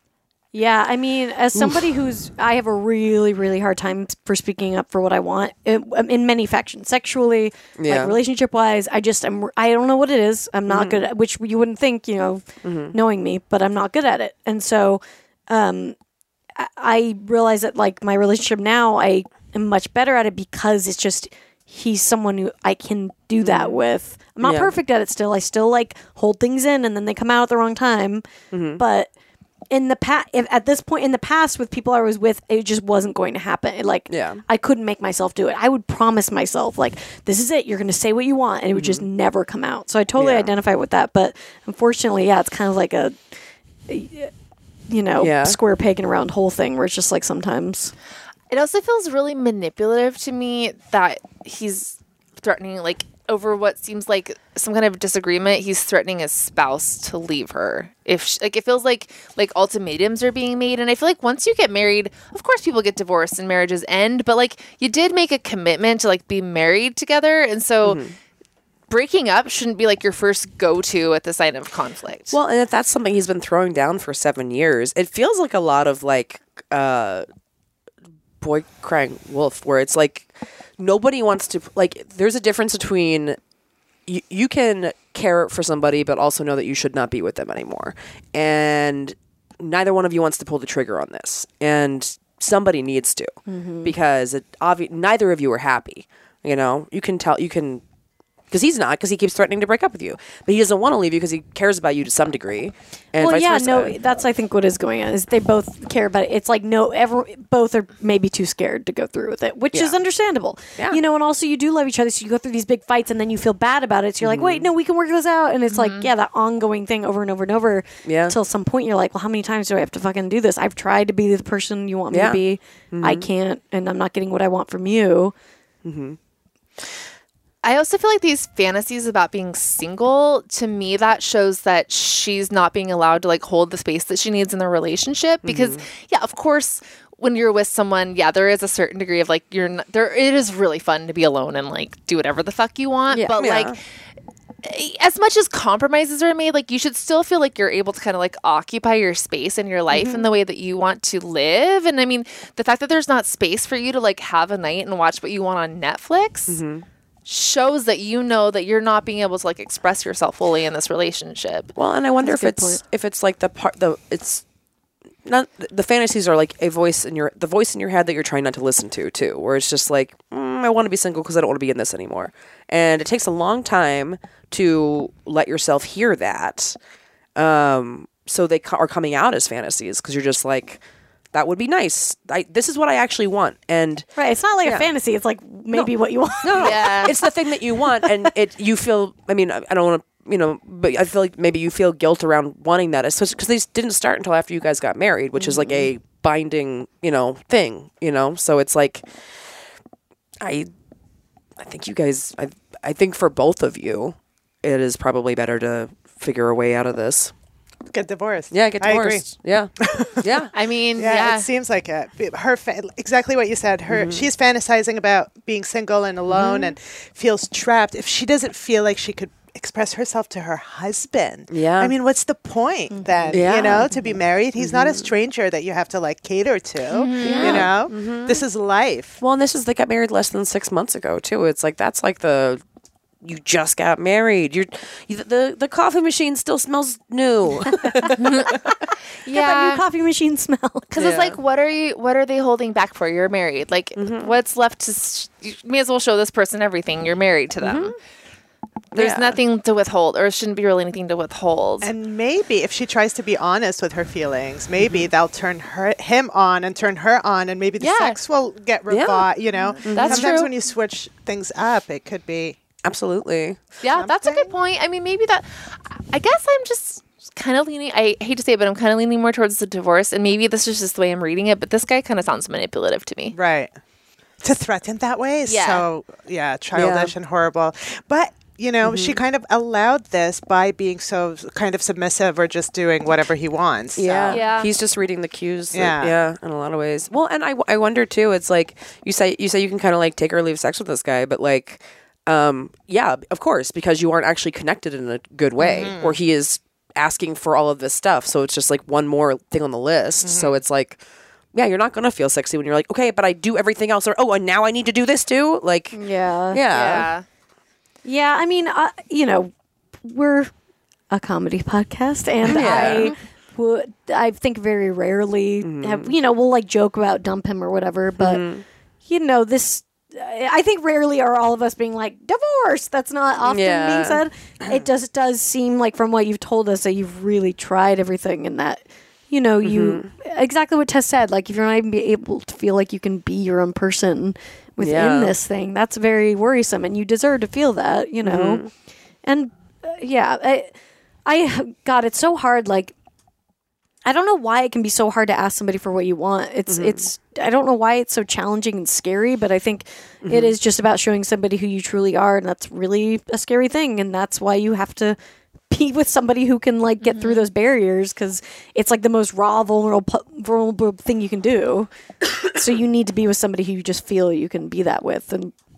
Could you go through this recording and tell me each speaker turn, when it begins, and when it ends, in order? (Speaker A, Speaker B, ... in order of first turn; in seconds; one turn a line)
Speaker A: 0.5-15.9
Speaker B: 7.8-8.2
Speaker B: 10.7-11.0
Speaker B: 12.6-12.9
Speaker A: 16.6-29.1
Speaker B: 23.4-23.8
Speaker B: 24.4-24.7
Speaker B: 28.5-28.8
Speaker A: 29.7-43.2
Speaker B: 34.1-34.4
Speaker B: 38.7-39.0
Speaker B: 40.2-40.5
Speaker A: 43.9-44.3
Speaker A: 44.9-47.9
Speaker B: 45.2-45.6
Speaker C: 48.5-68.0
Speaker B: 67.8-68.1
Speaker C: 68.9-72.4
Speaker B: 72.3-77.2
Speaker B: 78.4-83.4
Speaker B: 84.1-97.8
Speaker A: 93.5-93.9
Speaker B: 98.5-104.0
Speaker A: 103.2-125.3
Speaker B: 114.2-114.7
Speaker C: 115.7-116.1
Speaker B: 118.0-118.3
Speaker B: 122.1-122.4
Speaker B: 122.9-123.3
Speaker B: 125.8-126.2
Speaker C: 127.6-143.8
Speaker B: 135.4-135.8
Speaker A: 143.1-143.3
Speaker B: 143.4-143.8
Speaker C: 144.6-156.6
Speaker A: 149.9-150.2
Speaker B: 156.5-156.8
Speaker C: 157.2-161.7
Speaker B: 161.7-164.4
Speaker A: 162.2-162.8
Speaker B: 165.2-176.8
Speaker B: 177.3-180.8
Speaker B: 181.3-184.1
Speaker A: 184.2-188.3
Speaker B: 186.4-199.1
Speaker C: 186.6-187.1
Speaker A: 195.3-195.9
Speaker B: 200.4-200.7
Speaker B: 201.6-207.3
Speaker D: 207.9-209.3
Speaker B: 208.5-210.5
Speaker D: 209.8-229.2
Speaker C: 210.5-211.5
Speaker B: 213.9-214.3
Speaker B: 216.3-216.7
Speaker B: 221.5-221.9
Speaker A: 222.9-223.3
Speaker B: 223.3-223.9
Speaker B: 224.6-225.1
Speaker C: 226.9-227.7
Speaker B: 227.2-228.4
Speaker B: 229.2-232.6
Speaker B: 233.2-238.7
Speaker A: 237.8-238.1
Speaker C: 238.2-238.7
Speaker C: 239.2-239.8
Speaker A: 239.2-240.9
Speaker C: 240.9-247.9
Speaker B: 241.0-241.4
Speaker B: 244.0-244.3
Speaker B: 247.6-247.9
Speaker C: 248.9-251.9
Speaker B: 248.9-249.4
Speaker D: 251.8-262.6
Speaker B: 254.8-255.1
Speaker C: 257.8-258.2
Speaker B: 258.9-259.3
Speaker B: 259.9-260.3
Speaker C: 259.9-260.5
Speaker B: 262.8-263.6
Speaker C: 263.8-273.3
Speaker D: 263.9-264.5
Speaker D: 273.3-273.7
Speaker D: 274.4-284.4
Speaker C: 275.5-275.9
Speaker B: 276.7-277.1
Speaker B: 278.8-279.2
Speaker B: 283.9-301.0
Speaker C: 284.3-284.7
Speaker D: 285.7-286.2
Speaker D: 295.6-296.2
Speaker D: 300.2-300.6
Speaker B: 301.5-306.0
Speaker A: 305.9-306.6
Speaker B: 306.5-307.1
Speaker C: 306.7-307.2
Speaker A: 308.0-309.5
Speaker A: 310.0-310.5
Speaker A: 311.1-318.4
Speaker B: 312.4-313.1
Speaker C: 312.5-313.1
Speaker B: 315.6-316.1
Speaker B: 318.2-318.6
Speaker A: 319.1-338.7
Speaker B: 323.4-324.8
Speaker B: 329.6-330.1
Speaker B: 334.8-335.3
Speaker B: 338.2-338.7
Speaker A: 339.2-340.7
Speaker A: 341.2-342.9
Speaker A: 344.0-355.2
Speaker B: 346.7-347.0
Speaker B: 350.2-350.5
Speaker A: 355.7-365.5
Speaker C: 357.0-357.4